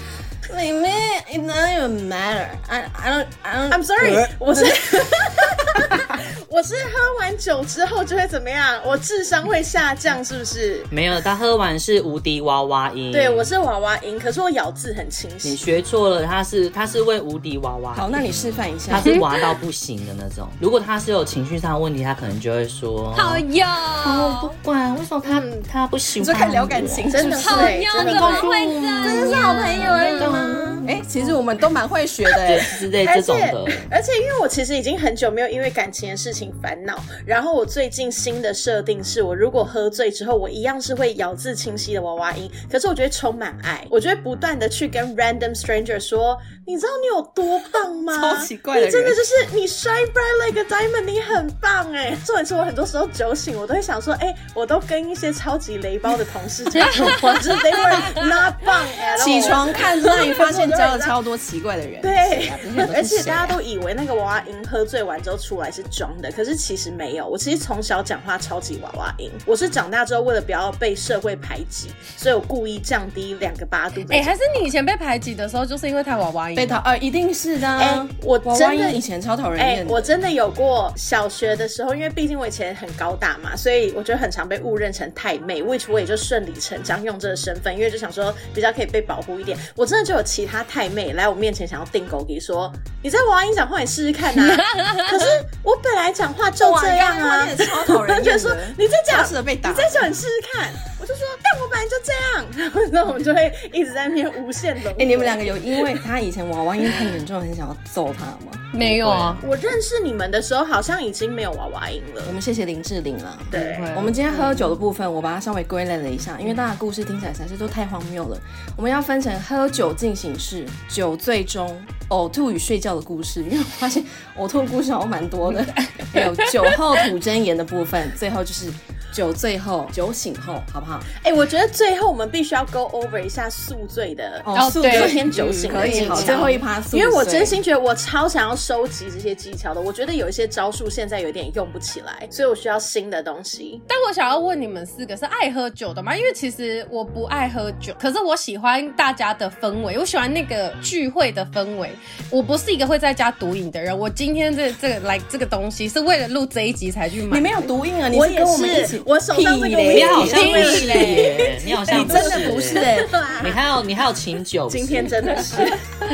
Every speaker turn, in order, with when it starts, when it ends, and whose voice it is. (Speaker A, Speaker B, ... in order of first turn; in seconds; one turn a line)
Speaker A: 0.5-6.1
Speaker B: 3.7-10.9
Speaker C: 10.9-13.5
Speaker B: 13.1-15.6
Speaker C: 15.4-23.4
Speaker A: 17.9-19.1
Speaker D: 19.0-19.5
Speaker D: 23.1-24.6
Speaker C: 24.0-30.9
Speaker D: 25.2-25.6
Speaker A: 26.2-27.8
Speaker B: 27.1-28.5
Speaker D: 27.4-30.8
Speaker A: 29.0-32.7
Speaker C: 32.4-33.9
Speaker B: 33.0-61.1
Speaker A: 48.1-49.2
Speaker D: 56.7-58.3
Speaker A: 59.1-63.6
Speaker B: 62.0-74.6
Speaker D: 74.1-76.8
Speaker A: 76.5-80.1
Speaker B: 77.8-79.0
Speaker B: 79.6-106.0
Speaker D: 94.4-95.2
Speaker A: 96.6-100.1
Speaker A: 104.9-108.7
Speaker D: 108.7-109.4
Speaker C: 108.8-109.4
Speaker B: 109.4-112.4
Speaker A: 112.2-131.1
Speaker B: 113.5-114.0
Speaker D: 113.5-114.6
Speaker D: 125.7-127.0
Speaker B: 131.2-143.8
Speaker A: 134.4-137.6
Speaker D: 134.5-136.6
Speaker D: 143.9-157.5
Speaker A: 157.3-163.2
Speaker B: 158.1-163.6
Speaker C: 159.9-165.6
Speaker D: 160.3-161.3
Speaker B: 164.7-165.8